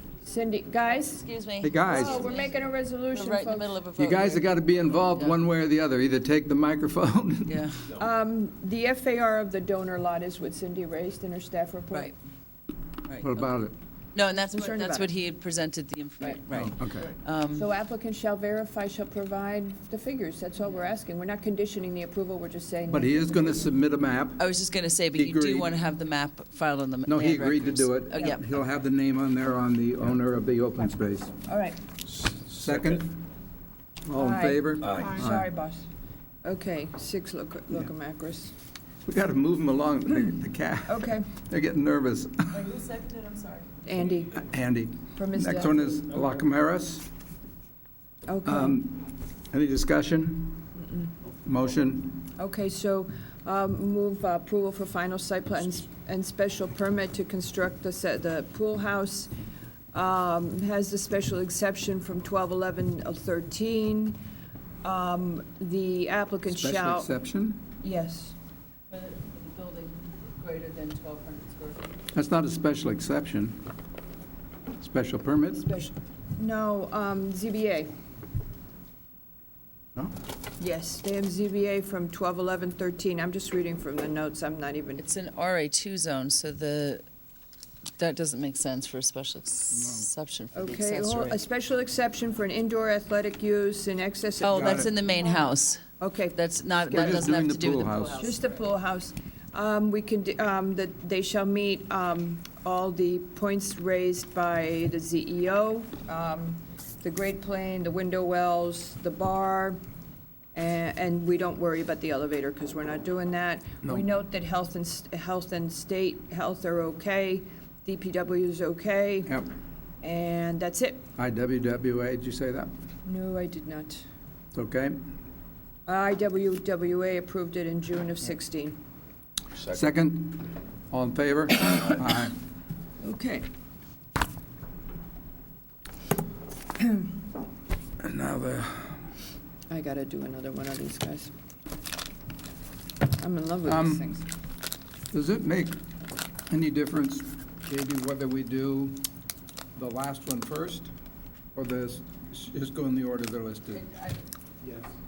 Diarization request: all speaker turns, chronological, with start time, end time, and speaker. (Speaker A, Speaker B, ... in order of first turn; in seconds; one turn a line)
Speaker A: 0.2-1.2
Speaker B: 0.9-5.4
Speaker C: 1.6-2.2
Speaker A: 1.9-3.7
Speaker C: 4.0-7.6
Speaker B: 7.5-7.9
Speaker A: 8.0-12.1
Speaker B: 13.1-13.5
Speaker C: 13.2-13.7
Speaker B: 14.1-17.7
Speaker A: 14.5-15.1
Speaker C: 16.5-17.1
Speaker A: 17.5-23.7
Speaker B: 20.6-20.9
Speaker C: 22.9-24.4
Speaker B: 24.4-28.4
Speaker C: 25.1-25.7
Speaker C: 27.1-31.3
Speaker A: 31.5-31.8
Speaker C: 32.3-33.1
Speaker C: 34.0-35.4
Speaker A: 34.1-35.8
Speaker A: 36.4-38.5
Speaker C: 39.0-42.7
Speaker A: 40.9-41.3
Speaker B: 42.5-43.7
Speaker A: 43.8-44.4
Speaker C: 44.3-47.1
Speaker A: 45.1-45.9
Speaker A: 48.3-48.8
Speaker C: 48.5-50.7
Speaker A: 50.8-51.1
Speaker C: 51.4-52.2
Speaker A: 52.4-59.3
Speaker A: 59.9-64.2
Speaker A: 64.8-67.1
Speaker C: 66.5-67.6
Speaker A: 67.8-68.3
Speaker B: 68.9-71.9
Speaker C: 72.1-73.6
Speaker C: 74.8-75.7
Speaker A: 75.5-77.9
Speaker A: 80.6-85.0
Speaker B: 85.0-87.0
Speaker B: 88.0-91.4
Speaker C: 89.7-90.1
Speaker A: 90.5-95.1
Speaker B: 94.4-98.6
Speaker C: 94.5-94.9
Speaker A: 96.0-96.4
Speaker C: 96.9-98.2
Speaker A: 98.2-109.8
Speaker A: 110.5-119.3
Speaker A: 120.0-121.0
Speaker C: 121.2-122.7
Speaker A: 123.0-124.0
Speaker C: 124.5-125.0
Speaker A: 125.9-128.8
Speaker C: 129.7-132.3
Speaker A: 133.0-133.5
Speaker C: 138.0-139.0
Speaker A: 139.7-141.3
Speaker A: 143.2-144.3
Speaker C: 143.6-144.0
Speaker C: 145.1-145.8
Speaker C: 146.5-149.1
Speaker C: 149.8-150.9
Speaker C: 151.5-153.8
Speaker B: 153.7-154.2